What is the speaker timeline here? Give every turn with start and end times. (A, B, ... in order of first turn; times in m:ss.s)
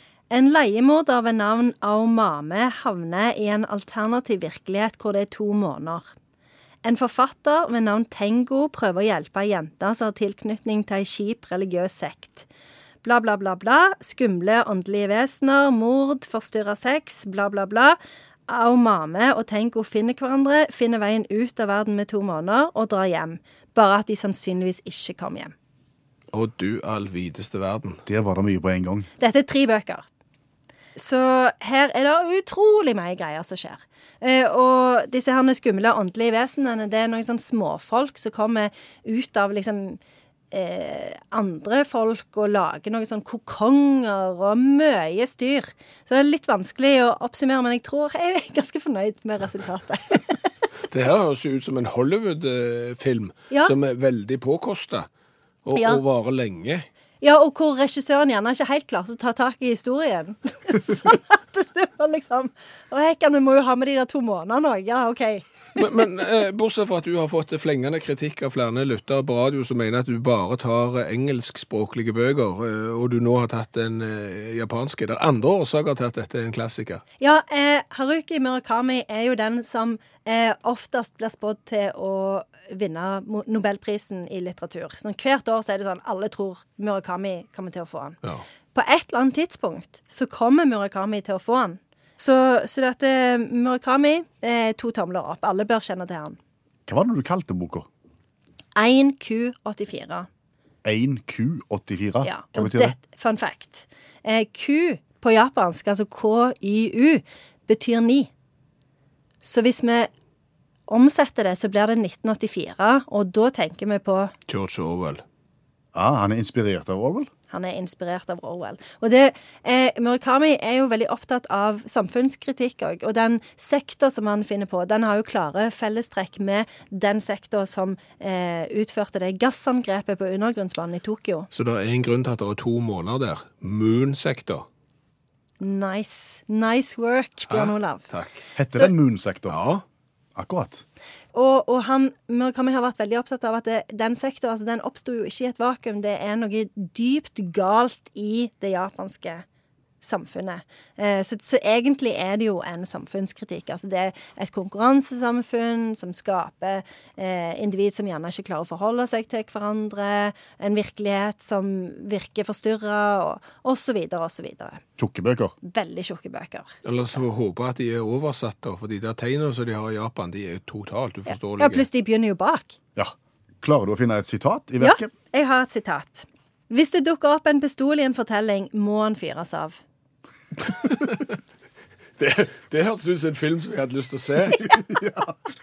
0:00.3-0:06.1 A
0:06.8-0:12.5 A
0:13.0-0:25.5 A
0:26.3-0:28.0 B
0:28.0-0:29.1 C
0:29.2-0:30.0 A
0:31.0-0:40.0 A
0:40.5-0:50.4 A
0:50.9-0:55.1 B
0:55.6-0:56.9 B
0:55.7-0:56.0 A
0:57.2-1:05.8 A
1:05.8-1:17.0 B
1:17.2-1:28.2 A
1:28.7-1:36.4 A
1:36.9-1:37.8 C
1:38.8-1:40.3 A
1:40.8-1:42.9 C
1:42.2-1:48.3 A
1:49.4-1:50.1 A
1:50.9-1:54.3 A
1:54.5-1:55.2 B
1:55.9-1:57.3 C
1:57.5-2:11.5 A
2:11.5-2:14.6 B
2:15.6-2:18.0 A
2:17.5-2:18.4 B
2:18.6-2:19.6 C
2:19.5-2:19.8 B
2:20.3-2:20.8 C
2:21.3-2:29.4 A
2:30.0-2:44.8 A
2:45.0-2:45.5 C
2:45.6-2:46.7 A
2:46.8-2:51.8 B
2:51.4-2:52.8 A
2:53.0-2:55.1 C
2:54.8-2:59.8 A
3:00.7-3:01.2 B
3:02.2-3:04.9 B
3:04.7-3:05.3 C